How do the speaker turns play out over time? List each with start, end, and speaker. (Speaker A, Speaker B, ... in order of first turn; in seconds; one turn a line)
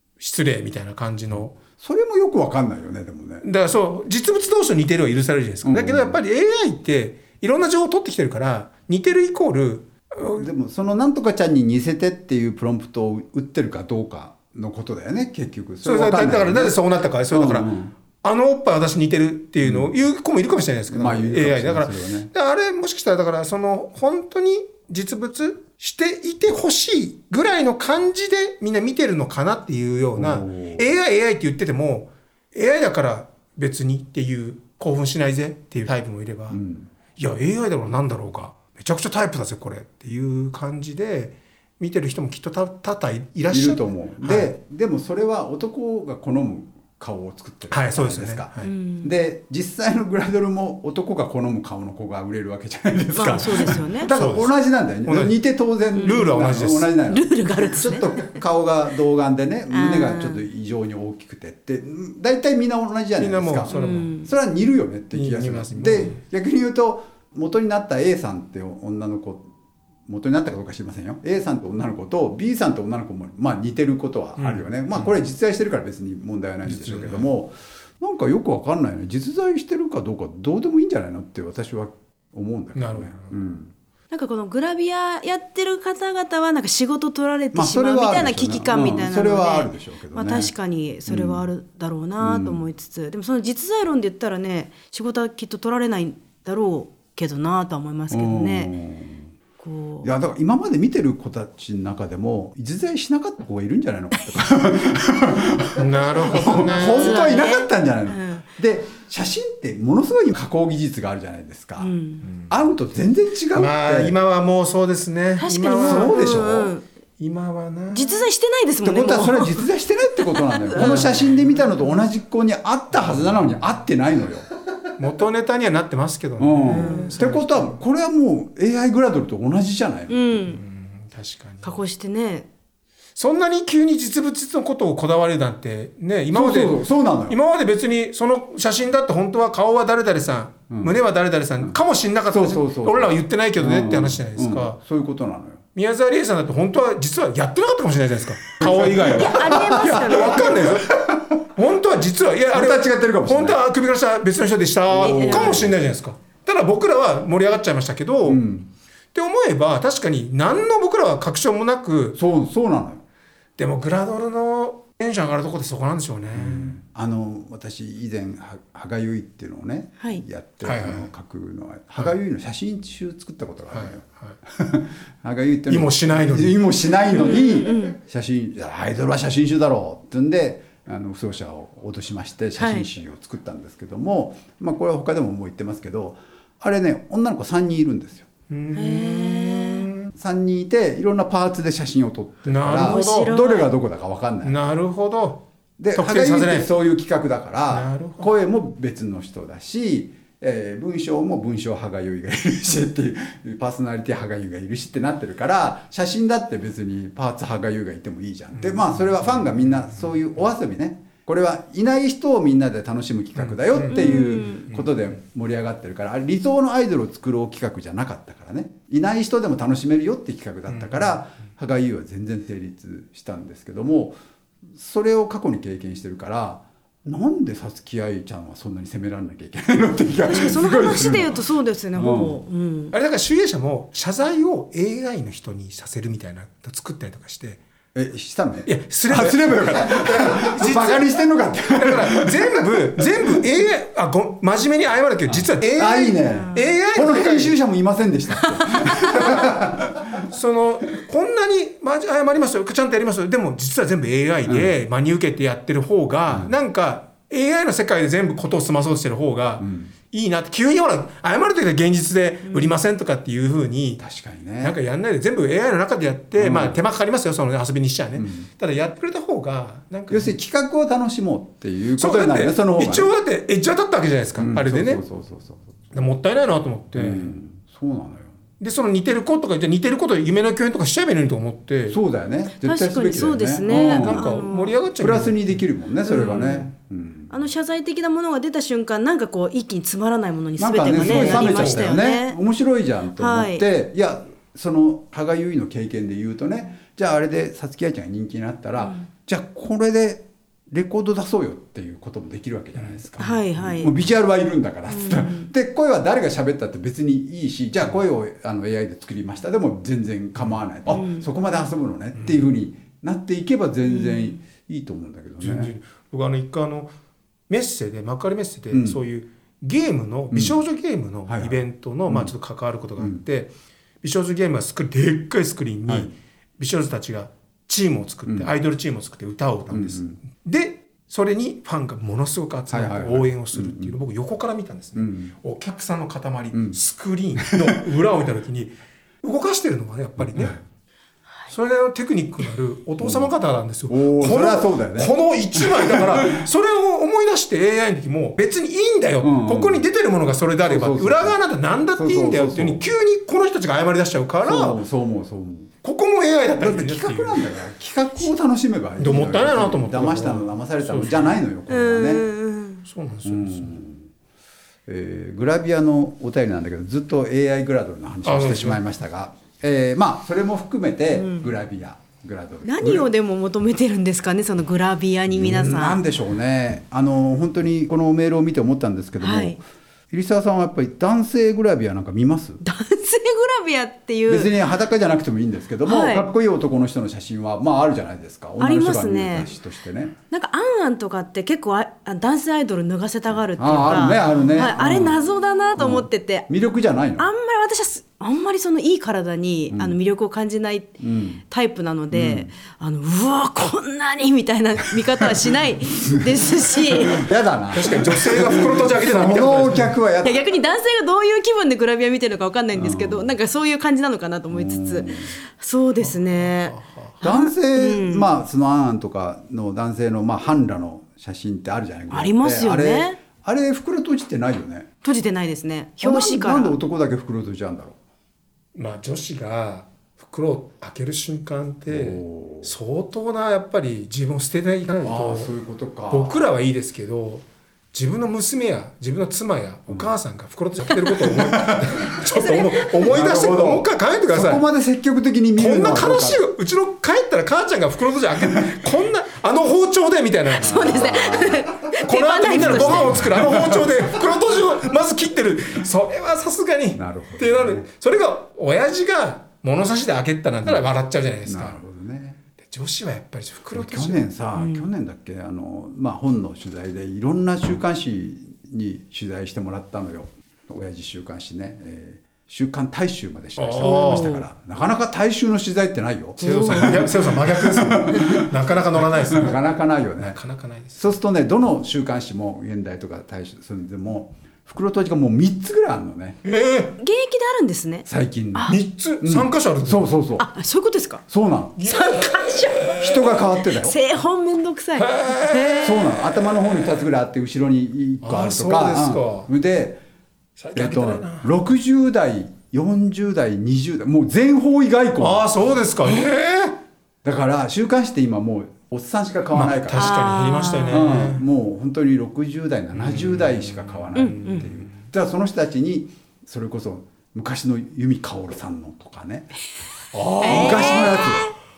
Speaker A: 0.2-1.6
Speaker B: 1.8-3.5
Speaker A: 3.4-10.5
Speaker B: 5.6-6.2
Speaker B: 10.2-16.8
Speaker A: 15.8-17.7
Speaker B: 17.3-17.9
Speaker A: 18.2-36.6
Speaker B: 19.6-19.9
Speaker B: 20.9-22.3
Speaker B: 30.2-30.9
Speaker B: 36.5-36.9
Speaker A: 37.2-44.5
Speaker B: 43.5-69.5
Speaker A: 47.7-48.7
Speaker C: 48.6-49.1
Speaker C: 53.1-54.1
Speaker A: 53.2-55.4
Speaker A: 56.0-56.9
Speaker C: 57.1-58.3
Speaker C: 59.7-60.5
Speaker A: 63.2-64.1
Speaker C: 63.7-64.3
Speaker A: 65.1-66.2
Speaker B: 70.1-83.7
Speaker A: 74.4-75.1
Speaker A: 76.7-77.3
Speaker A: 82.8-83.3
Speaker C: 84.1-98.7
Speaker B: 87.5-90.5
Speaker B: 91.1-91.5
Speaker B: 92.2-92.6
Speaker B: 98.1-99.3
Speaker C: 99.6-100.1
Speaker B: 100.0-111.9
Speaker A: 105.7-107.4
Speaker C: 106.5-108.5
Speaker C: 111.8-112.2
Speaker A: 112.3-112.5
Speaker B: 112.5-114.2
Speaker A: 113.5-116.5
Speaker C: 115.4-116.8
Speaker B: 115.8-116.7
Speaker A: 117.2-118.3
Speaker C: 117.9-119.7
Speaker B: 118.8-124.5
Speaker C: 120.2-121.1
Speaker A: 120.8-121.8
Speaker A: 125.0-127.8
Speaker B: 126.4-130.6
Speaker C: 126.7-127.1
Speaker C: 130.1-130.6
Speaker A: 130.6-131.8
Speaker C: 131.6-132.5
Speaker A: 133.2-144.8
Speaker B: 136.3-137.4
Speaker B: 140.7-141.0
Speaker B: 142.3-145.6
Speaker A: 145.8-151.0
Speaker B: 148.6-151.4
Speaker C: 149.0-150.5
Speaker A: 151.6-158.4
Speaker B: 152.5-153.6
Speaker B: 154.9-155.8
Speaker C: 154.9-155.7
Speaker B: 158.2-158.7
Speaker A: 159.1-162.2
Speaker B: 162.2-163.0
Speaker A: 163.6-166.8
Speaker B: 166.3-188.3
Speaker A: 170.6-171.1
Speaker A: 173.7-174.4
Speaker A: 175.7-176.6
Speaker C: 177.1-178.0
Speaker C: 182.6-182.9
Speaker A: 188.5-190.1
Speaker C: 188.7-189.9
Speaker B: 190.1-194.6
Speaker A: 192.4-193.3
Speaker C: 192.8-193.7
Speaker A: 194.4-195.4
Speaker B: 195.8-224.2
Speaker A: 195.9-196.7
Speaker A: 197.7-198.3
Speaker A: 208.6-209.8
Speaker A: 213.4-215.1
Speaker C: 213.9-214.7
Speaker A: 220.7-221.2
Speaker B: 224.8-231.4
Speaker C: 230.3-232.9
Speaker B: 231.9-232.4
Speaker A: 232.9-237.6
Speaker B: 237.9-243.4
Speaker A: 238.7-247.6
Speaker B: 245.3-250.2
Speaker C: 246.3-246.6
Speaker C: 248.7-249.2
Speaker A: 249.1-249.4
Speaker A: 250.2-264.0
Speaker B: 254.5-254.7
Speaker B: 256.3-256.6
Speaker B: 259.6-259.9
Speaker B: 264.0-264.8
Speaker A: 264.6-270.3
Speaker B: 266.4-266.8
Speaker B: 268.2-268.5
Speaker B: 270.1-273.1
Speaker A: 272.0-275.0
Speaker B: 274.4-275.7
Speaker A: 275.9-277.3
Speaker B: 276.9-278.4
Speaker A: 278.6-282.0
Speaker B: 281.9-284.4
Speaker C: 282.6-284.8
Speaker A: 283.7-285.4
Speaker B: 285.0-287.3
Speaker C: 286.1-286.7
Speaker C: 287.3-292.4
Speaker B: 290.6-315.7
Speaker A: 291.0-291.9
Speaker C: 293.2-293.6
Speaker C: 298.8-299.1
Speaker C: 303.2-303.9
Speaker C: 304.9-305.5
Speaker C: 310.9-311.3
Speaker C: 313.9-314.3
Speaker A: 315.4-316.9
Speaker A: 317.5-338.7
Speaker B: 318.7-319.0
Speaker B: 320.3-320.6
Speaker B: 321.3-322.3
Speaker B: 325.9-326.1
Speaker B: 329.7-330.2
Speaker B: 332.7-334.0
Speaker B: 335.0-335.3
Speaker B: 336.5-336.8
Speaker B: 337.4-337.8
Speaker A: 339.2-340.6
Speaker A: 341.5-354.8
Speaker B: 343.0-343.3
Speaker B: 343.9-346.5
Speaker B: 349.2-349.9
Speaker B: 350.6-351.4
Speaker B: 351.9-352.9
Speaker B: 354.4-355.7
Speaker A: 355.8-357.5
Speaker B: 356.4-362.3
Speaker A: 359.0-361.4
Speaker C: 361.7-362.8
Speaker A: 362.9-363.8
Speaker B: 363.2-364.1
Speaker B: 364.9-373.1
Speaker A: 368.2-368.8
Speaker C: 371.1-371.5
Speaker C: 372.6-376.0
Speaker B: 375.3-382.6
Speaker C: 379.2-379.6
Speaker C: 382.6-384.6
Speaker B: 384.3-390.1
Speaker C: 385.9-386.3
Speaker C: 388.6-389.5
Speaker C: 390.3-396.5
Speaker B: 393.6-395.2
Speaker B: 395.8-397.3
Speaker C: 397.2-401.0
Speaker B: 399.7-400.0
Speaker B: 401.0-401.4
Speaker C: 401.5-407.3
Speaker B: 402.1-402.5
Speaker B: 406.1-406.3
Speaker B: 406.9-410.4
Speaker A: 407.7-409.9
Speaker C: 410.2-418.3
Speaker B: 412.8-413.3
Speaker B: 414.5-415.4
Speaker A: 416.0-417.1
Speaker B: 417.2-424.9
Speaker C: 422.1-423.2
Speaker C: 425.0-426.8
Speaker B: 426.0-428.0
Speaker A: 428.8-435.5
Speaker B: 431.9-432.7
Speaker B: 435.0-436.4
Speaker A: 436.1-444.6
Speaker B: 441.1-442.2
Speaker B: 443.0-446.4
Speaker A: 445.6-451.1
Speaker C: 450.5-453.2
Speaker B: 450.6-451.7
Speaker A: 451.9-461.8
Speaker B: 452.5-454.2
Speaker B: 457.0-457.9
Speaker B: 461.5-462.4
Speaker A: 462.6-464.2
Speaker B: 463.7-480.4
Speaker C: 464.6-464.9
Speaker A: 473.6-474.4
Speaker C: 473.8-474.5
Speaker C: 476.4-477.1
Speaker A: 476.4-479.6
Speaker A: 480.2-481.1
Speaker B: 481.0-486.4
Speaker A: 486.4-486.9
Speaker C: 487.0-488.8
Speaker B: 488.1-490.5
Speaker A: 488.7-490.1
Speaker C: 490.4-491.2
Speaker B: 491.3-491.8
Speaker A: 491.8-493.3
Speaker C: 491.8-496.0
Speaker B: 492.9-494.0
Speaker A: 495.0-496.9
Speaker B: 495.8-500.0
Speaker A: 498.2-499.5
Speaker A: 500.6-501.5
Speaker B: 500.8-505.5
Speaker A: 505.2-506.8
Speaker B: 507.2-510.3
Speaker A: 509.5-511.4
Speaker C: 509.9-511.1
Speaker B: 510.9-519.5
Speaker A: 512.9-515.0
Speaker C: 514.1-514.6
Speaker A: 520.1-521.2
Speaker C: 520.4-521.5
Speaker B: 520.4-521.5